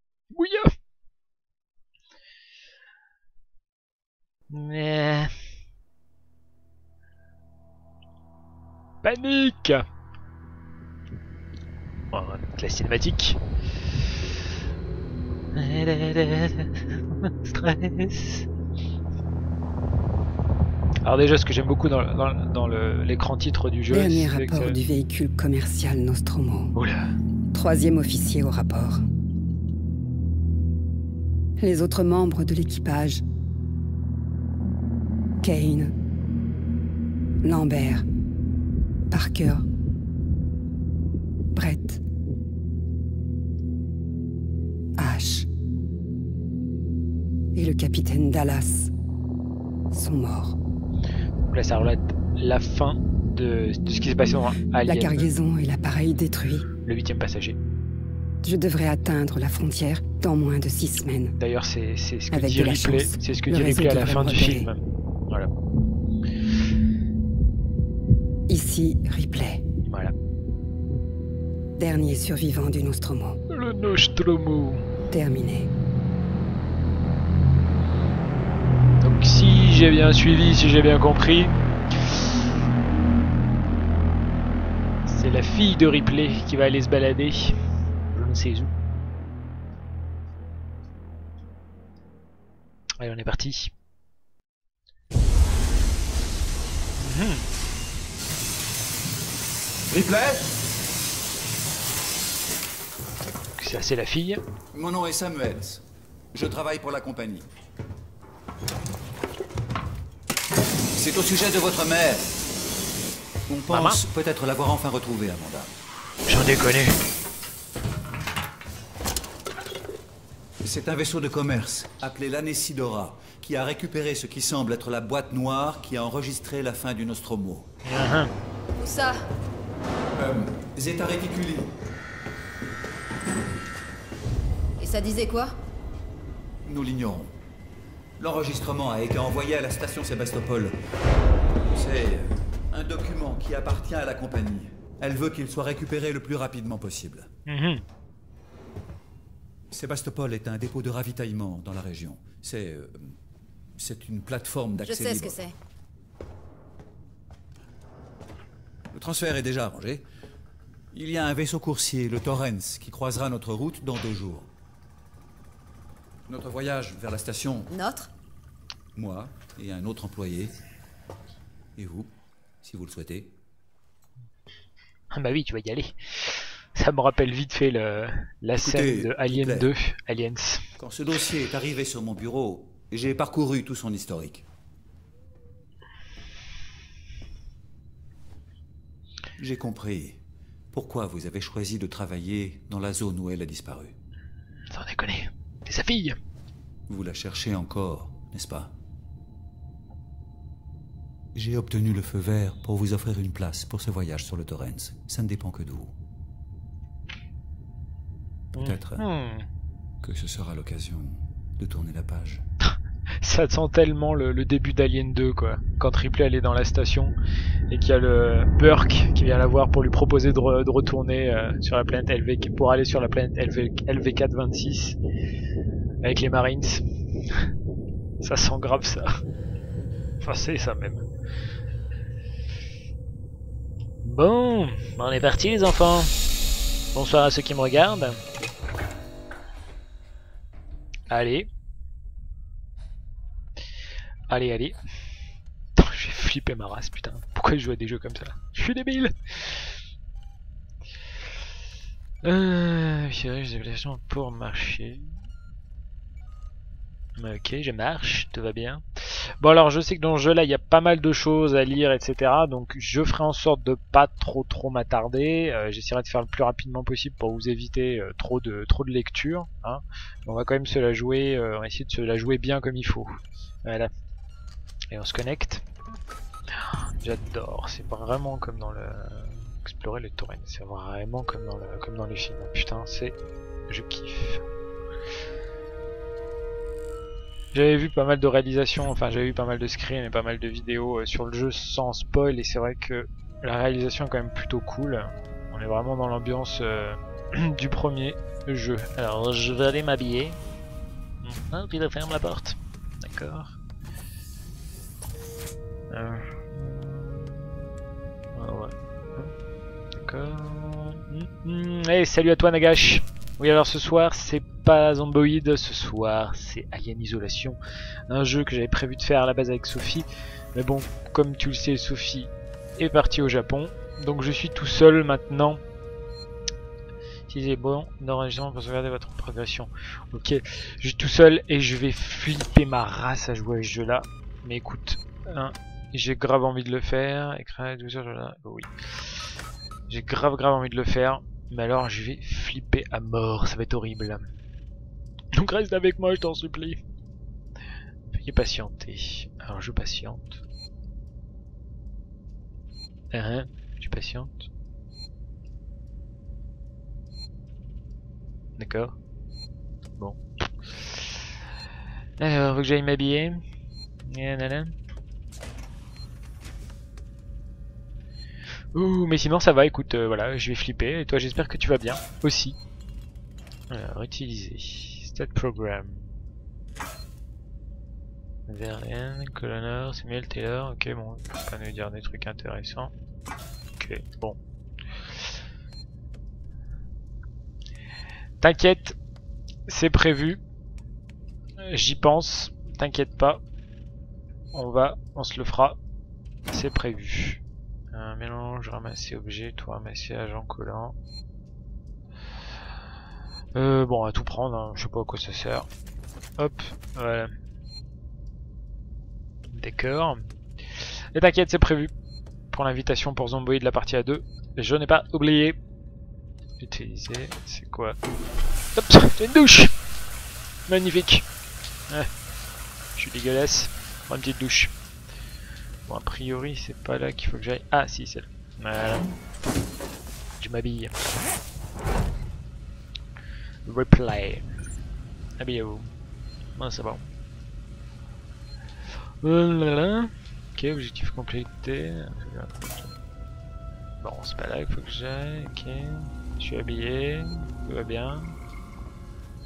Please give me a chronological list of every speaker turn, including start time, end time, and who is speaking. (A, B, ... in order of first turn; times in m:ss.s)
0:00.3-0:00.7 A
0:04.5-0:05.3 A
0:09.0-0:09.8 A
0:12.1-0:13.4 A
0:15.5-0:18.4 A
0:21.0-0:24.8 A
0:23.9-0:26.7 B
0:26.7-0:27.1 A
0:27.5-0:29.0 B
0:31.6-0:33.2 B
0:35.4-0:35.9 B
0:37.4-0:38.0 B
0:39.1-0:39.6 B
0:41.5-0:42.0 B
0:45.0-0:45.5 B
0:47.5-0:48.9 B
0:49.9-0:50.6 B
0:51.5-0:55.3 A
0:54.8-0:56.6 B
0:56.8-0:57.6 A
0:58.4-1:01.3 B
1:01.4-1:05.5 A
1:02.3-1:04.7 B
1:08.5-1:09.6 B
1:09.9-1:10.1 A
1:11.8-1:13.4 B
1:13.5-1:14.9 A
1:15.1-1:15.7 B
1:19.0-1:21.6 A
1:25.1-1:27.6 A
1:28.1-1:28.7 A
1:33.0-1:33.7 A
1:37.0-1:37.4 A
1:39.9-1:40.5 C
1:43.6-1:44.4 A
1:44.7-1:47.5 C
1:50.9-1:52.3 C
1:53.5-1:55.7 C
1:53.7-1:54.0 A
1:56.3-1:56.9 A
2:00.6-2:07.7 C
2:07.8-2:08.3 A
2:08.8-2:09.2 D
2:10.2-2:11.7 C
2:14.8-2:15.5 D
2:16.6-2:17.3 C
2:18.2-2:20.8 C
2:21.7-2:27.3 C
2:27.5-2:27.8 A
2:29.7-2:33.2 C
2:33.8-2:35.4 C
2:34.8-2:35.5 D
2:38.9-2:40.0 C
2:40.9-2:44.5 C
2:46.2-2:47.7 C
2:47.7-2:48.1 D
2:48.9-2:50.6 C
2:51.8-2:52.1 C
2:52.6-2:53.3 C
2:55.1-3:00.6 A
2:58.6-2:59.7 C
3:00.8-3:04.4 C
3:09.4-3:13.9 C
3:14.7-3:16.2 A
3:16.9-3:18.7 C
3:21.3-3:25.9 C
3:28.5-3:29.5 A
3:28.6-3:29.0 C
3:30.0-3:32.4 C
3:32.6-3:37.1 A
3:37.7-3:45.0 A
3:46.0-3:46.8 A
3:48.2-3:49.2 A
3:50.2-3:51.0 A
3:54.0-3:56.1 A
3:56.9-3:58.2 A
4:01.1-4:01.5 A
4:04.3-4:04.8 A
4:05.8-4:09.7 A
4:12.2-4:15.1 A
4:17.2-4:18.8 A
4:19.4-4:33.9 A
4:34.9-4:35.6 A
4:36.6-4:43.2 A
4:43.7-4:44.4 A
4:47.5-5:00.4 A
5:01.2-5:03.6 A
5:05.9-5:07.5 A
5:08.3-5:09.3 A
5:09.9-5:25.6 A
5:27.3-5:38.7 A
5:39.9-5:44.3 A
5:45.3-5:46.8 A
5:48.1-5:50.4 A
5:53.1-5:54.5 A
5:58.6-5:59.0 A
6:00.7-6:01.2 A
6:02.2-6:03.4 A
6:04.0-6:04.7 A
6:08.7-6:12.6 A
6:13.7-6:16.1 A
6:18.5-6:22.9 A
6:23.8-6:24.4 A
6:28.4-6:29.0 A
6:29.7-6:30.4 A
6:31.6-6:33.4 A
6:34.5-6:35.8 A
6:36.5-6:37.4 A
6:37.9-6:40.9 A
6:43.5-6:45.7 A
6:46.4-6:47.3 A
6:49.5-6:51.9 A
6:52.5-6:55.6 A
6:56.6-6:58.0 A
6:58.8-6:59.7 A
7:00.7-7:01.2 A
7:03.0-7:04.7 A
7:05.9-7:09.1 A
7:10.4-7:11.0 A
7:13.6-7:14.5 A
7:15.4-7:15.9 A
7:16.6-7:17.0 A
7:19.2-7:22.9 A
7:24.0-7:28.4 A